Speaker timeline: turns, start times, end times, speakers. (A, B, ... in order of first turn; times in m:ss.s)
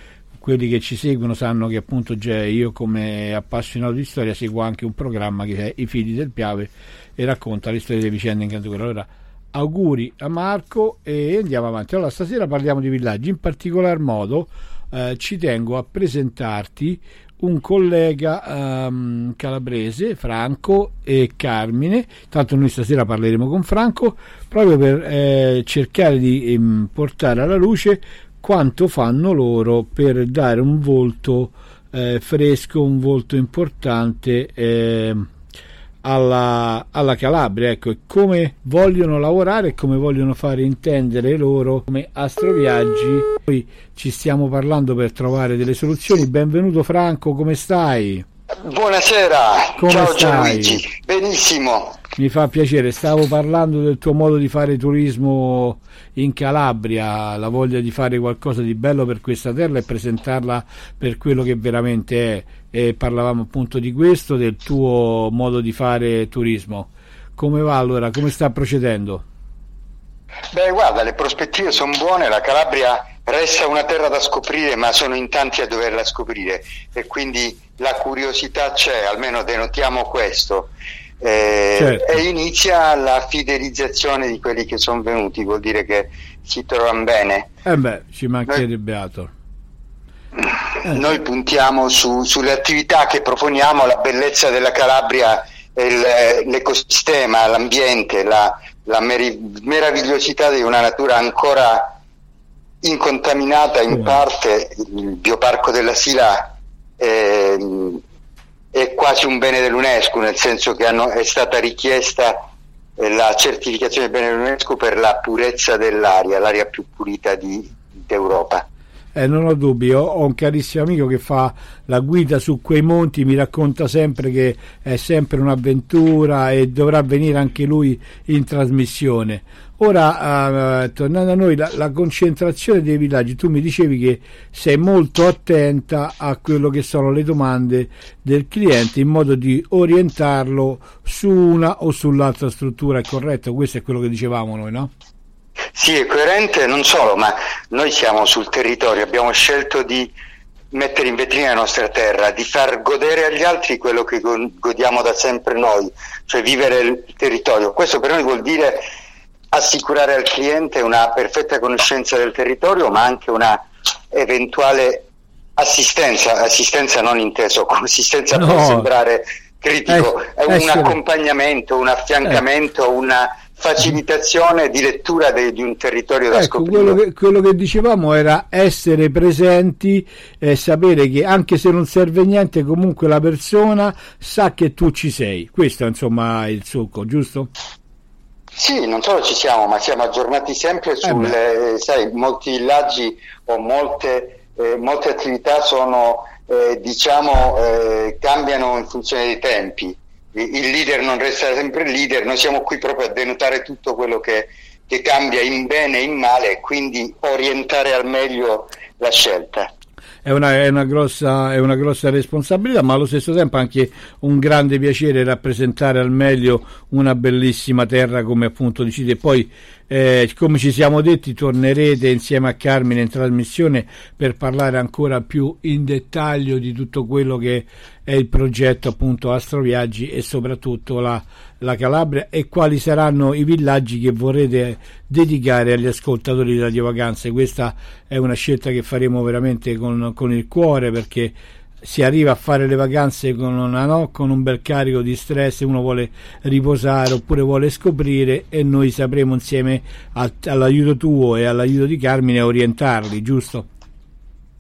0:00.4-0:35.3 A
0:36.0-0:48.2 A
0:48.6-0:52.0 B
0:49.8-0:50.8 A
0:52.2-1:09.3 A
1:10.5-1:20.7 B
1:21.2-1:27.5 B
1:21.8-1:22.2 A
1:27.6-1:29.3 A
1:30.4-1:41.9 B
1:42.8-1:48.0 B
1:43.9-1:44.2 A
1:48.7-1:52.4 B
1:53.0-1:58.6 B
1:59.2-2:24.9 A
2:25.8-2:30.1 B
2:30.7-2:38.8 B
2:39.5-2:45.0 B
2:45.6-2:57.0 B
2:48.3-2:48.9 A
2:49.9-2:51.0 A
2:56.3-3:07.5 A
3:08.6-3:29.7 B
3:11.0-3:11.4 A
3:30.2-4:13.7 A